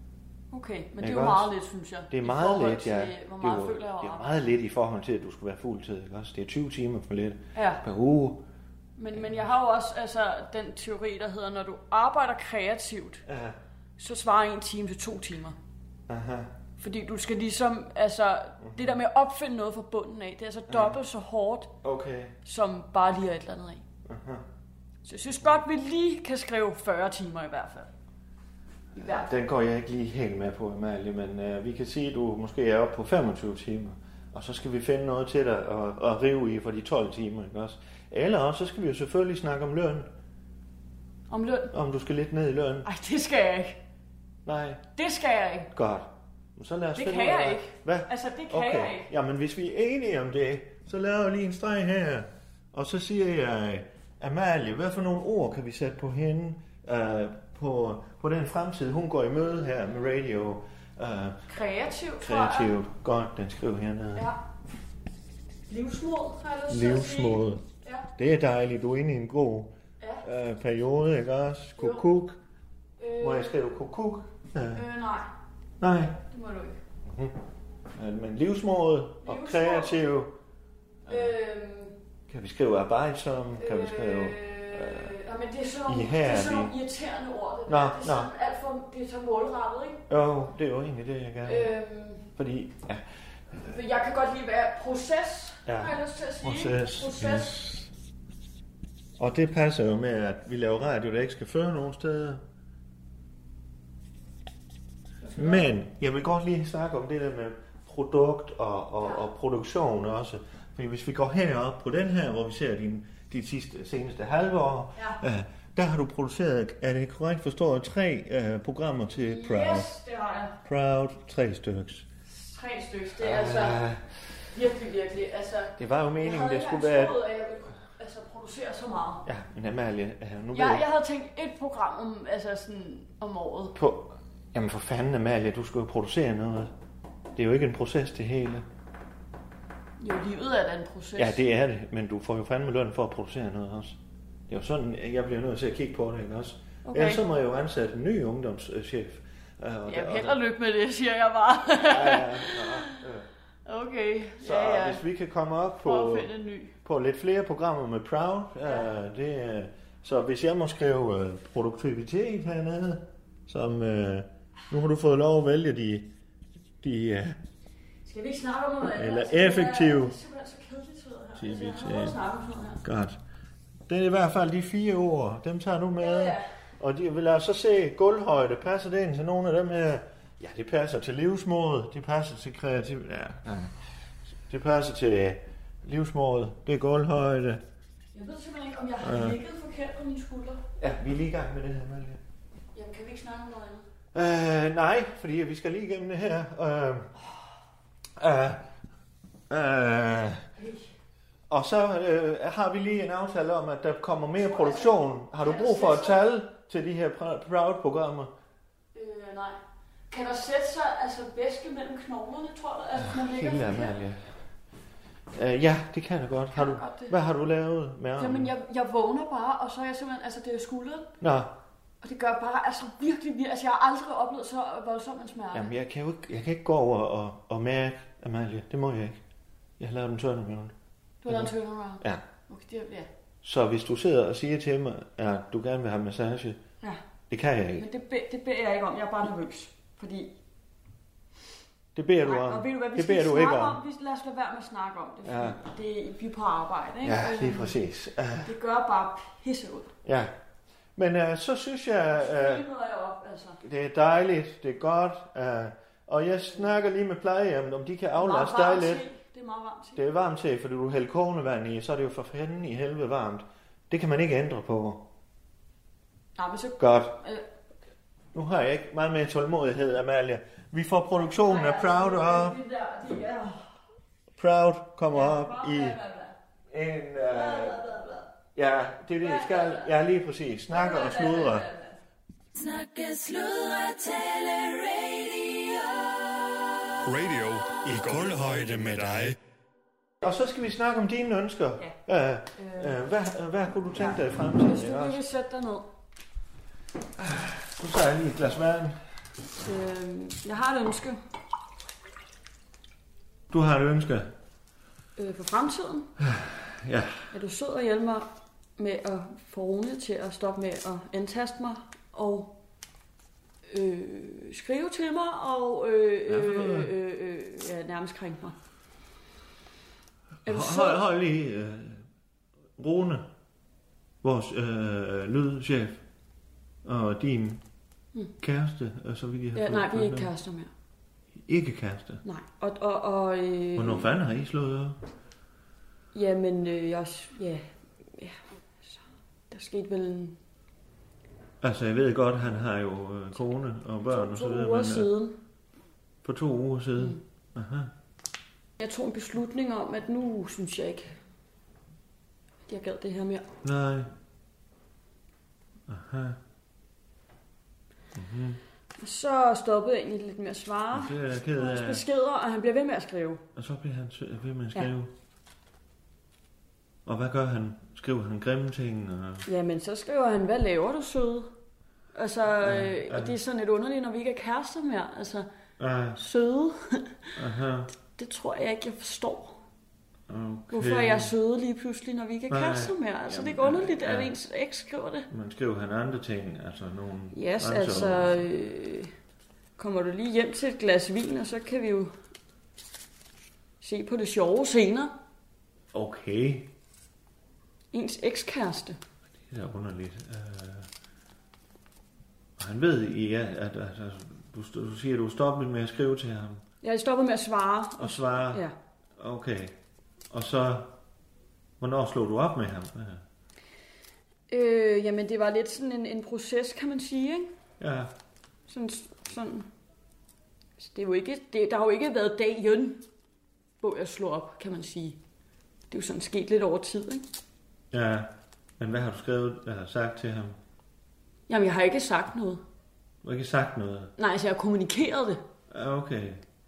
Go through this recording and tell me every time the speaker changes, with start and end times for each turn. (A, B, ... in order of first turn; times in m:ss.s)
0:00.5-0:04.3 A
0:01.0-0:01.5 B
0:02.1-0:08.4 B
0:07.5-0:07.8 A
0:09.0-0:13.2 A
0:13.2-0:13.6 B
0:14.0-0:15.6 A
0:16.1-0:16.5 B
0:16.8-0:21.7 A
0:18.6-0:18.9 B
0:20.7-0:21.0 B
0:21.8-0:22.4 B
0:22.4-0:23.8 A
0:24.0-0:24.4 B
0:25.0-0:27.9 A
0:28.9-0:29.3 A
0:28.9-0:40.1 B
0:41.3-0:41.7 A
0:41.7-0:42.9 B
0:42.8-0:43.8 A
0:44.4-0:44.8 B
0:45.0-0:45.7 A
0:45.7-1:01.4 B
0:47.0-0:49.1 A
1:01.5-1:02.7 A
1:02.2-1:04.3 B
1:05.7-1:08.1 A
1:06.7-1:07.6 B
1:08.2-1:12.4 B
1:11.8-1:12.1 A
1:13.0-1:13.6 A
1:13.2-1:14.8 B
1:14.7-1:15.3 A
1:15.8-1:16.2 B
1:16.3-1:16.8 A
1:17.0-1:17.4 B
1:17.9-1:20.3 B
1:19.2-1:20.0 A
1:21.0-1:21.3 B
1:21.1-1:22.0 A
1:22.3-1:25.1 B
1:23.6-1:30.0 A
1:25.9-1:26.7 B
1:27.7-1:28.3 B
1:30.1-1:31.7 B
1:31.4-1:32.3 A
1:32.4-1:33.0 B
1:33.6-1:37.6 A
1:35.6-1:37.9 B
1:39.2-1:42.4 B
1:45.2-1:45.6 A
1:45.4-1:59.9 B
1:55.0-1:55.2 A
1:59.2-2:00.6 A
2:00.6-2:02.0 B
2:02.3-2:03.8 A
2:03.2-2:04.2 B
2:04.5-2:09.2 A
2:05.8-2:07.2 B
2:09.2-2:10.9 B
2:10.5-2:13.8 A
2:13.7-2:16.7 B
2:17.4-2:18.6 B
2:20.0-2:21.4 A
2:21.2-2:24.0 B
2:24.5-2:30.4 B
2:26.8-2:27.2 A
2:29.9-2:33.0 A
2:31.8-2:33.3 B
2:33.6-2:35.0 A
2:34.4-2:36.3 B
2:35.8-2:36.8 A
2:36.8-2:46.1 B
2:46.8-2:47.4 B
2:48.0-2:52.8 A
2:48.9-2:50.1 B
2:51.4-2:52.2 B
2:52.8-2:53.2 B
2:53.9-3:03.7 B
2:56.0-2:56.5 A
3:04.5-3:07.6 B
3:08.1-3:10.6 A
3:09.0-3:09.4 B
3:10.8-3:12.2 B
3:12.7-3:13.8 A
3:14.1-3:17.1 B
3:18.2-3:18.7 B
3:19.5-3:20.4 B
3:20.6-3:20.9 A
3:21.5-3:28.3 B
3:24.5-3:26.2 A
3:28.9-3:29.6 A
3:30.1-3:34.0 A
3:33.0-3:34.4 B
3:35.3-3:38.5 B
3:36.5-3:37.1 A
3:38.2-3:41.1 A
3:41.2-3:41.5 B
3:42.0-3:45.7 A
3:45.5-3:49.2 B
3:49.8-3:50.7 B
3:51.2-3:53.1 A
3:51.3-3:52.2 B
3:53.4-3:56.6 B
3:57.3-3:57.8 B
3:57.8-4:00.3 A
4:01.9-4:03.8 B
4:02.2-4:07.8 A
4:05.2-4:05.6 B
4:07.0-4:08.5 B
4:08.4-4:09.9 A
4:10.0-4:10.3 B
4:11.0-4:12.6 B
4:12.2-4:13.6 A
4:13.6-4:19.0 B
4:18.2-4:20.0 A
4:20.0-4:25.1 B
4:26.4-4:27.4 A
4:26.8-4:27.2 B
4:28.3-4:32.6 B
4:31.3-4:33.6 A
4:34.4-4:36.0 B
4:35.1-4:36.4 A
4:36.7-4:37.8 B
4:37.3-4:38.3 A
4:38.6-4:41.7 B
4:39.2-4:39.9 A
4:40.7-4:42.0 A
4:42.6-4:46.2 A
4:47.0-4:49.4 C
4:50.2-4:55.2 B
4:52.5-4:53.0 A
4:54.0-4:55.9 A
4:57.2-4:59.0 B
4:59.6-5:01.2 A
5:03.5-5:04.3 B
5:05.2-5:06.1 A
5:06.2-5:07.2 B
5:07.3-5:12.6 A
5:13.7-5:18.6 A
5:16.3-5:16.9 B
5:20.4-5:22.0 B
5:20.4-5:21.0 A
5:22.8-5:23.3 B
5:24.2-5:26.0 B
5:26.8-5:27.6 B
5:28.4-5:30.3 B
5:29.5-5:30.7 A
5:31.4-5:32.2 B
5:32.2-5:34.1 A
5:33.8-5:35.0 B
5:36.1-5:40.4 A
5:41.6-5:45.1 B
5:44.1-5:45.4 A
5:46.2-5:47.9 B
5:48.8-5:51.2 A
5:52.7-5:53.5 A
5:53.6-5:54.1 B
5:55.9-5:56.4 B
5:58.1-5:58.6 B
5:59.0-6:03.4 A
6:00.9-6:02.0 B
6:03.5-6:05.1 B
6:07.0-6:09.4 B
6:09.4-6:11.5 A
6:12.1-6:15.5 A
6:12.6-6:13.4 B
6:15.8-6:16.2 B
6:16.2-6:17.3 A
6:17.4-6:17.9 B
6:18.2-6:19.6 A
6:20.3-6:21.3 B
6:20.7-6:25.3 A
6:22.5-6:24.3 B
6:25.3-6:28.5 B
6:27.3-6:29.1 A
6:29.8-6:32.1 A
6:33.8-6:35.1 A
6:35.9-6:36.7 B
6:37.9-6:39.0 A
6:39.5-6:40.9 B
6:42.6-6:46.6 B
6:46.8-6:48.7 A
6:48.0-6:48.6 B
6:49.2-6:49.7 B
6:50.3-6:50.9 B
6:51.8-6:53.2 B
6:54.5-6:57.5 A
6:57.8-6:58.1 B
6:58.7-6:59.7 A
7:00.8-7:03.0 A
7:03.8-7:05.2 A
7:05.9-7:07.2 A
7:07.9-7:10.6 B
7:11.5-7:12.6 A
7:13.2-7:14.1 B
7:14.2-7:15.4 A
7:15.7-7:16.4 B